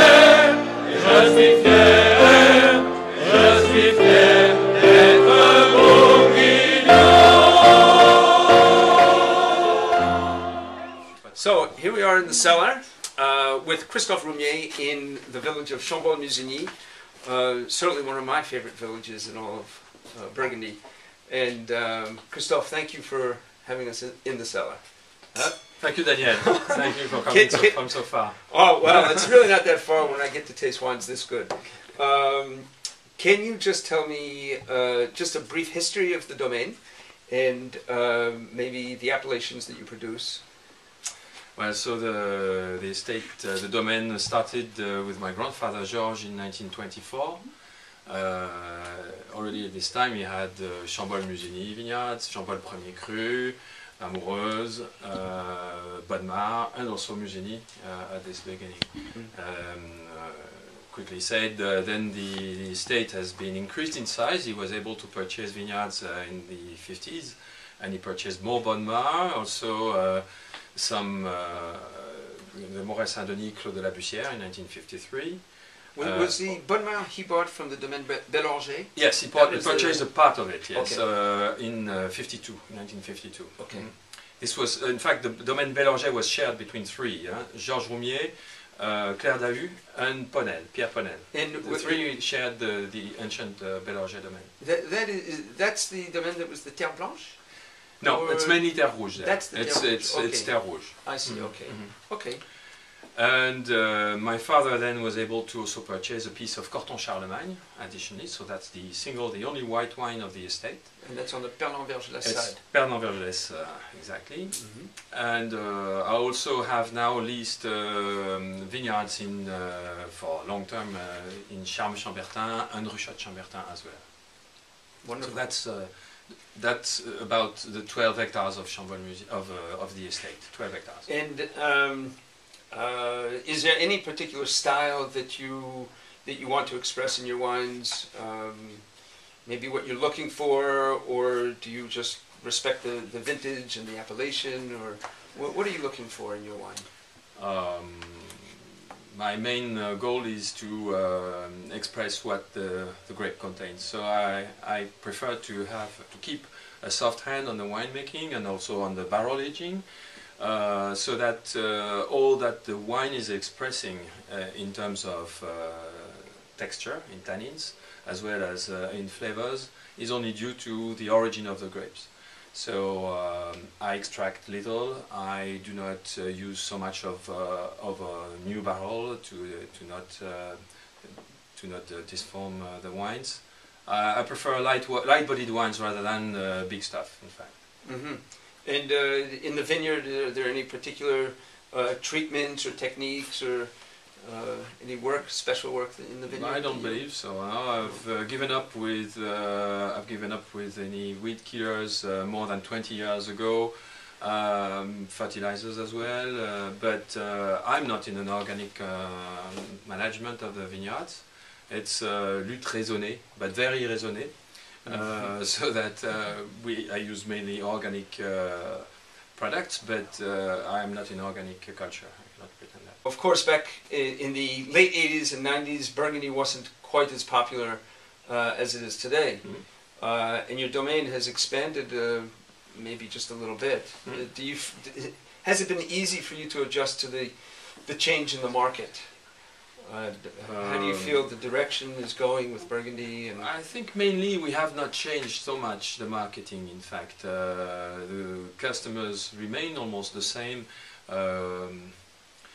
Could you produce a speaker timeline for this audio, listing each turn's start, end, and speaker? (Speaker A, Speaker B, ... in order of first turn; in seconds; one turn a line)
Speaker A: 1.3-2.3
Speaker A: 3.3-4.4
Speaker A: 11.2-11.8
Speaker B: 11.3-40.5
Speaker A: 25.8-29.0
Speaker A: 41.5-76.6
Speaker B: 76.0-81.0
Speaker A: 78.9-94.5
Speaker B: 83.6-83.9
Speaker B: 91.3-92.2
Speaker B: 94.6-102.4
Speaker A: 98.0-101.9
Speaker A: 103.1-111.0
Speaker B: 111.0-112.6
Speaker A: 112.2-124.6
Speaker B: 114.5-114.9
Speaker B: 125.0-125.4
Speaker A: 125.2-131.1
Speaker B: 131.1-146.9
Speaker A: 147.3-148.5
Speaker A: 149.1-187.6
Speaker B: 187.8-198.0
Speaker A: 196.3-223.0
Speaker B: 214.8-215.3
Speaker B: 223.0-243.5
Speaker A: 240.4-241.2
Speaker A: 243.3-252.2